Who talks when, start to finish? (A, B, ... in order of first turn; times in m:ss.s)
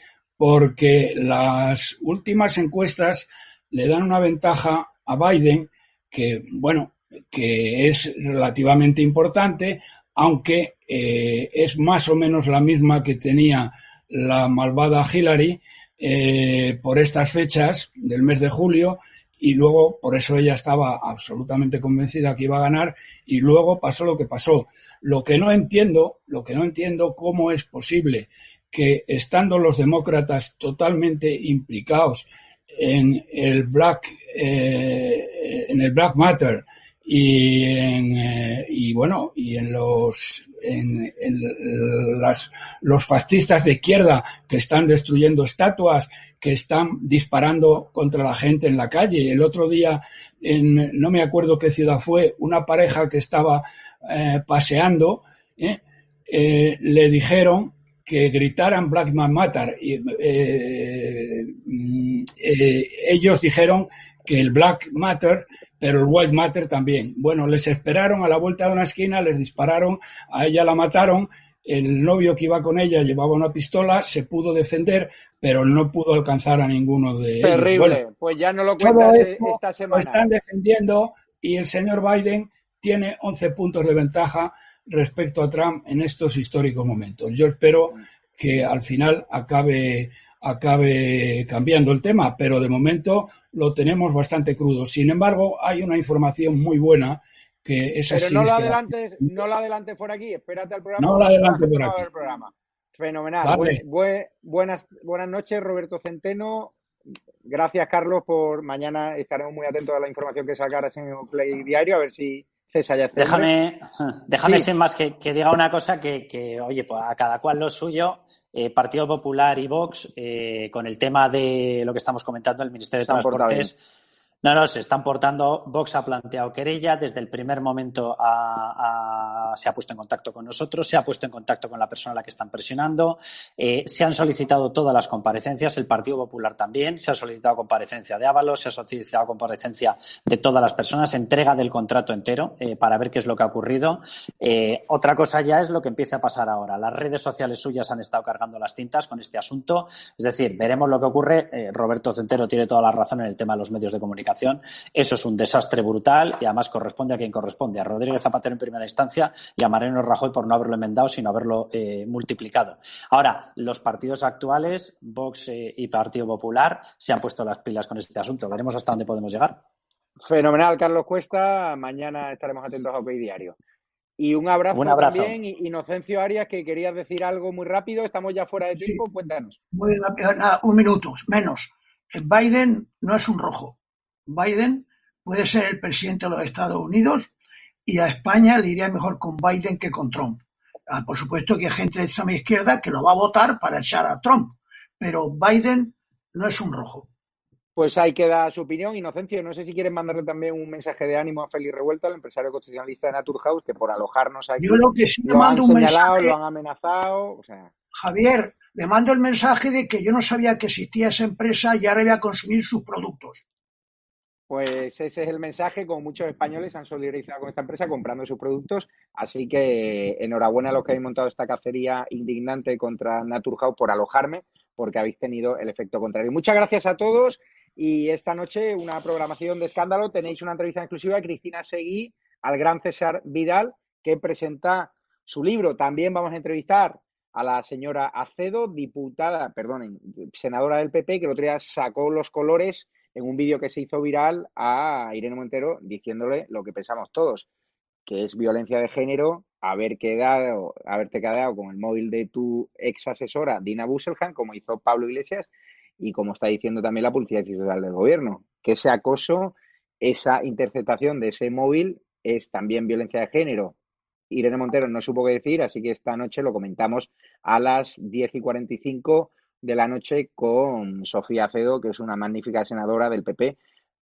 0:00.4-1:18.0 A
1:17.4-1:20.3 B
1:18.8-1:39.3 A
1:38.1-1:46.8 B
1:41.0-1:42.0 A
1:43.4-1:43.8 A
1:47.4-1:53.5 B
1:53.2-2:03.8 C
2:03.0-2:03.7 B
2:04.4-2:49.6 C
2:50.3-2:53.6 B
2:54.2-2:59.6 B
2:54.7-2:55.4 C
2:59.7-3:07.3 D
3:07.9-3:17.1 D
3:17.8-3:27.7 B
3:24.6-3:26.4 D
3:28.0-3:33.4 D
3:34.5-4:07.5 B
4:08.1-4:23.7 B
4:24.3-4:33.6 B